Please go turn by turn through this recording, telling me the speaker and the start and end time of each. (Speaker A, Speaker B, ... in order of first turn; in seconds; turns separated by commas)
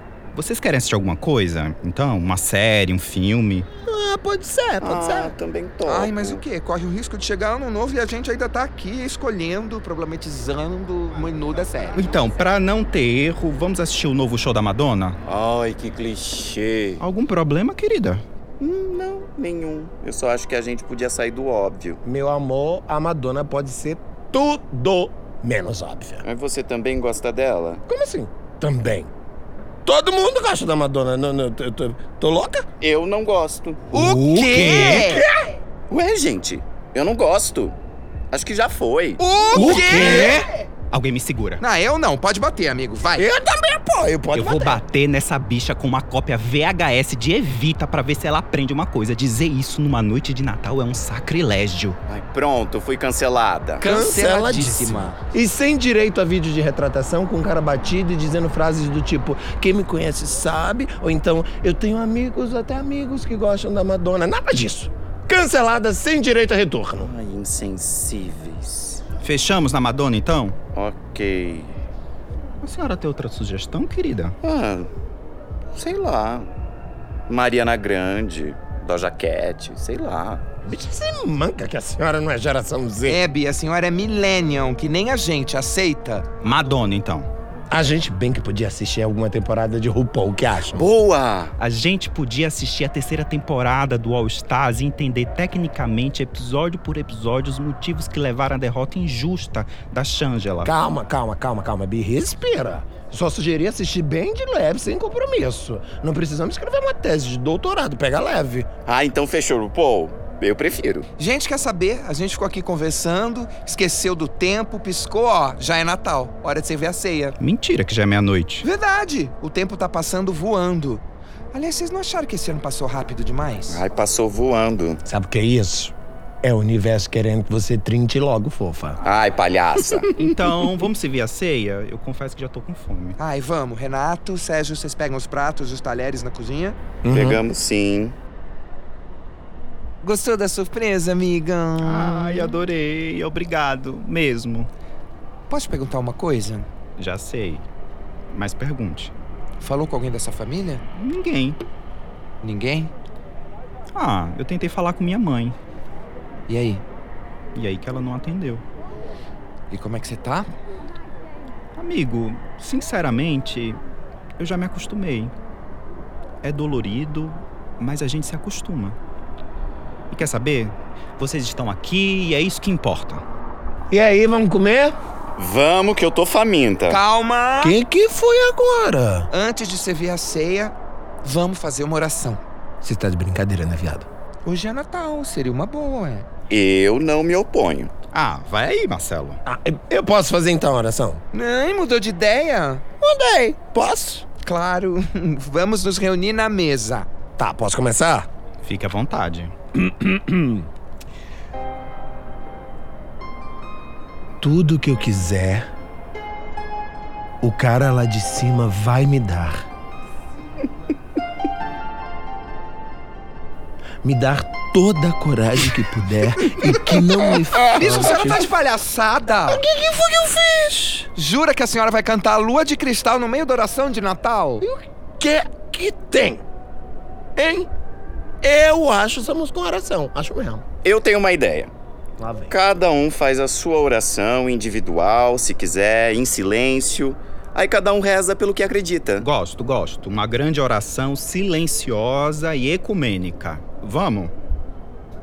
Speaker A: 0.3-3.7, Speaker B: 3.9-5.3, Speaker C: 4.8-6.4, Speaker D: 5.8-12.1, Speaker A: 11.9-15.2, Speaker C: 15.2-17.0, Speaker A: 17.0-18.2, Speaker C: 18.6-22.0, Speaker B: 22.0-26.2, Speaker C: 26.2-27.8, Speaker B: 27.9-29.1, Speaker B: 29.8-32.6, Speaker C: 32.8-33.9, Speaker D: 33.9-35.2, Speaker A: 33.9-35.1, Speaker B: 34.6-35.4, Speaker C: 35.9-37.7, Speaker C: 38.3-39.2, Speaker D: 39.2-40.4, Speaker B: 39.5-40.4, Speaker A: 39.5-41.6, Speaker D: 41.6-43.2, Speaker B: 43.1-44.8, Speaker A: 44.3-52.0, Speaker C: 52.1-53.8, Speaker D: 53.8-55.2, Speaker B: 53.8-67.1, Speaker C: 67.0-69.0, Speaker A: 69.2-70.5, Speaker C: 70.7-71.8, Speaker A: 72.6-74.3, Speaker C: 74.4-74.9, Speaker C: 75.7-76.5, Speaker C: 77.3-80.4, Speaker B: 80.6-83.2, Speaker D: 83.1-86.2, Speaker A: 86.4-87.3, Speaker B: 87.7-90.9, Speaker C: 90.7-91.5, Speaker A: 91.6-100.7, Speaker B: 100.6-108.7, Speaker C: 108.8-111.1, Speaker D: 111.2-117.3, Speaker A: 117.4-118.7, Speaker D: 118.6-121.0, Speaker D: 121.5-123.8, Speaker C: 123.7-125.0, Speaker B: 125.0-129.0, Speaker C: 129.0-130.1, Speaker A: 130.0-133.2, Speaker D: 133.2-136.8, Speaker B: 137.0-137.4, Speaker C: 137.1-138.1, Speaker D: 140.0-142.6, Speaker A: 141.8-144.7, Speaker D: 145.5-146.7, Speaker A: 147.0-147.6, Speaker A: 148.3-149.1, Speaker D: 149.6-150.8, Speaker A: 150.9-151.6, Speaker D: 152.4-152.9, Speaker A: 153.9-155.6, Speaker D: 156.5-156.8, Speaker A: 157.5-158.6, Speaker D: 159.7-160.5, Speaker A: 161.8-163.8, Speaker A: 164.4-165.3, Speaker A: 166.4-169.0, Speaker A: 170.1-173.2, Speaker B: 173.9-174.9, Speaker C: 175.4-177.0, Speaker D: 176.9-177.7, Speaker B: 177.6-179.3, Speaker D: 179.3-182.4, Speaker B: 182.8-184.1, Speaker D: 184.4-186.3, Speaker C: 186.5-187.9, Speaker A: 188.1-189.4, Speaker B: 189.4-191.2, Speaker D: 191.3-192.8, Speaker B: 193.0-194.2, Speaker D: 194.4-197.1, Speaker B: 197.4-198.3, Speaker A: 198.6-199.5, Speaker B: 199.8-200.7, Speaker B: 204.4-205.7, Speaker B: 207.4-209.6, Speaker B: 214.0-218.5, Speaker D: 217.3-219.6, Speaker B: 219.5-221.1, Speaker D: 221.2-224.6, Speaker B: 224.6-226.4, Speaker B: 227.3-227.7, Speaker B: 228.4-230.6, Speaker C: 230.8-231.7, Speaker B: 232.2-232.5, Speaker C: 232.5-239.2, Speaker A: 239.2-244.3